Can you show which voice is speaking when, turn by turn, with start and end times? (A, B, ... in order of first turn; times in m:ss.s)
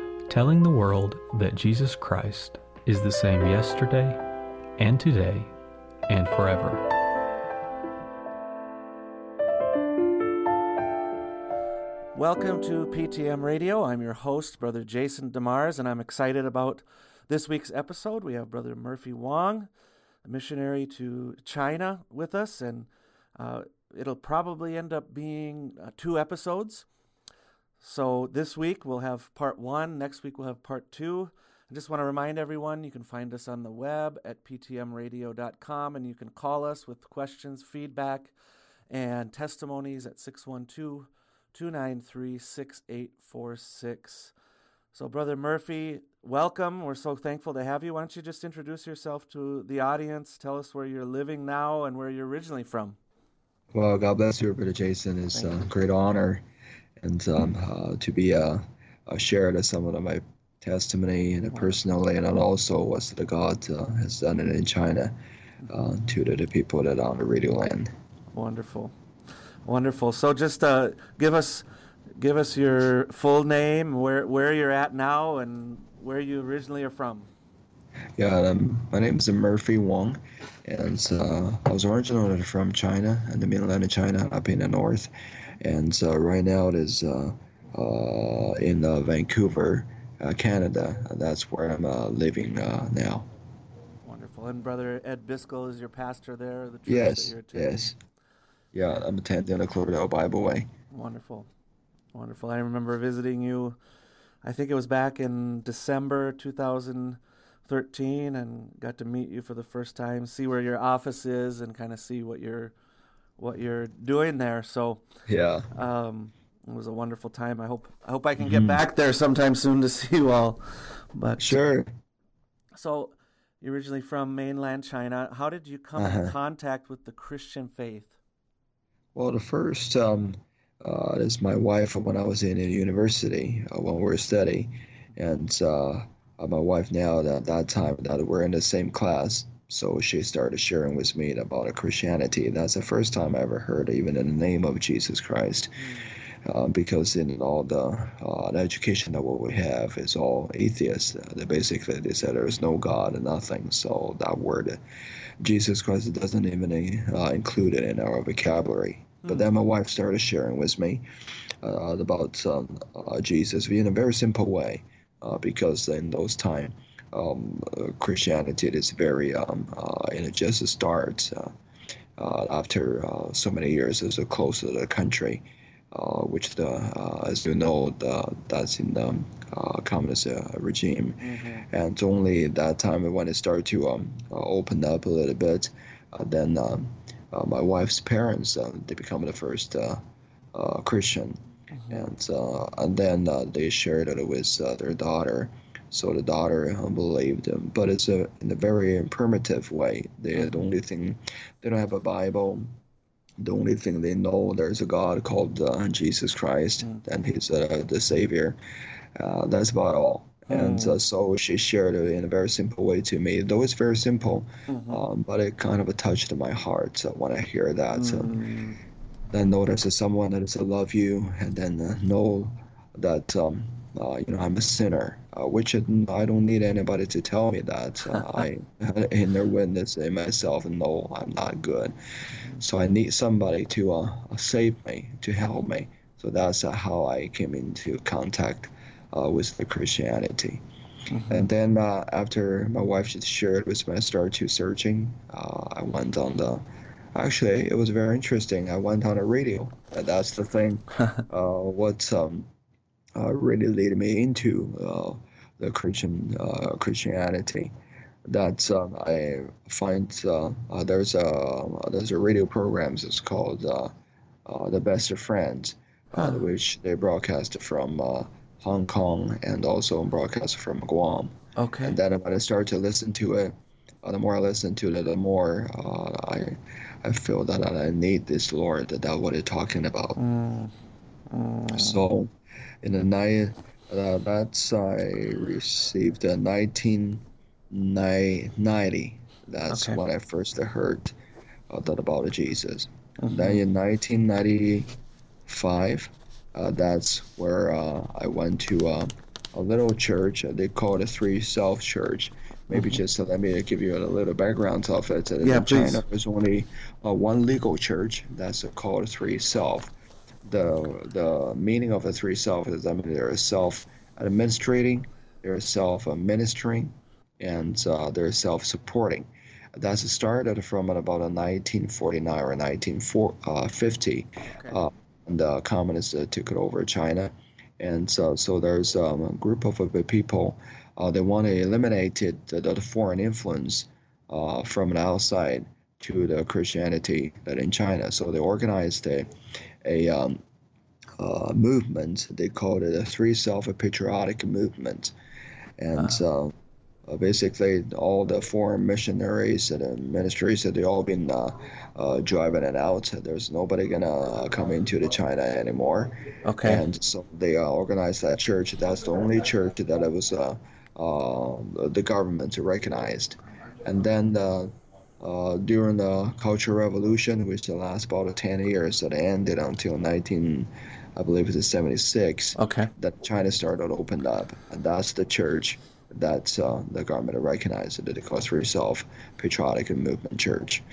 0:00.3-0:04.2 A
0:04.8-0:05.5 A
0:06.1-0:06.8 A
0:12.1-0:19.7 B
0:20.2-0:26.8 B
0:27.8-0:38.3 B
0:38.9-0:44.3 B
0:44.9-0:53.0 B
0:53.7-0:56.4 C
0:57.0-1:05.1 C
1:05.7-1:07.9 C
1:08.3-1:08.9 B
1:09.6-1:11.6 B
1:12.2-1:17.3 B
1:18.2-1:33.3 C
1:34.0-1:37.9 B
1:36.8-1:37.9 C
1:38.7-1:40.7 C
1:40.9-1:41.5 B
1:42.1-1:43.8 B
1:44.4-1:52.7 B
1:53.4-1:55.0 B
1:55.3-1:55.7 C
1:55.7-2:00.6 B
1:58.4-1:58.8 C
2:01.1-2:01.6 B
2:01.4-2:01.9 C
2:02.7-2:08.2 B
2:06.0-2:06.3 C
2:09.1-2:25.9 C
2:26.4-2:34.8 C
2:35.4-2:41.0 C
2:39.2-2:39.5 B
2:41.6-2:51.5 C
2:52.2-3:10.0 C
3:01.2-3:01.6 B
3:10.5-3:22.7 C
3:11.7-3:12.1 B
3:23.4-3:28.6 C
3:29.1-3:38.4 C
3:30.5-3:31.0 B
3:34.7-3:35.0 B
3:37.9-3:38.8 B
3:39.3-3:51.9 C
3:52.6-4:00.6 C
4:01.1-4:01.5 B
4:01.3-4:06.6 C
4:07.1-4:12.5 C
4:13.2-4:17.7 C
4:18.2-4:23.9 C
4:24.4-4:40.2 C
4:26.2-4:26.4 B
4:31.6-4:32.0 B
4:40.2-4:40.7 B
4:41.3-4:42.0 B
4:41.7-4:42.3 C
4:42.8-4:51.1 C
4:49.7-4:50.0 B
4:51.7-4:54.9 C
4:53.2-4:53.6 B
4:55.4-5:09.9 C
5:02.7-5:03.0 B
5:05.4-5:06.0 B
5:10.4-5:39.3 C
5:24.5-5:24.8 B
5:39.8-5:40.4 C
5:41.2-5:45.1 C
5:45.8-5:46.5 C
5:46.0-5:46.2 B
5:47.0-6:20.8 C
5:56.4-5:56.8 B
6:12.6-6:12.9 B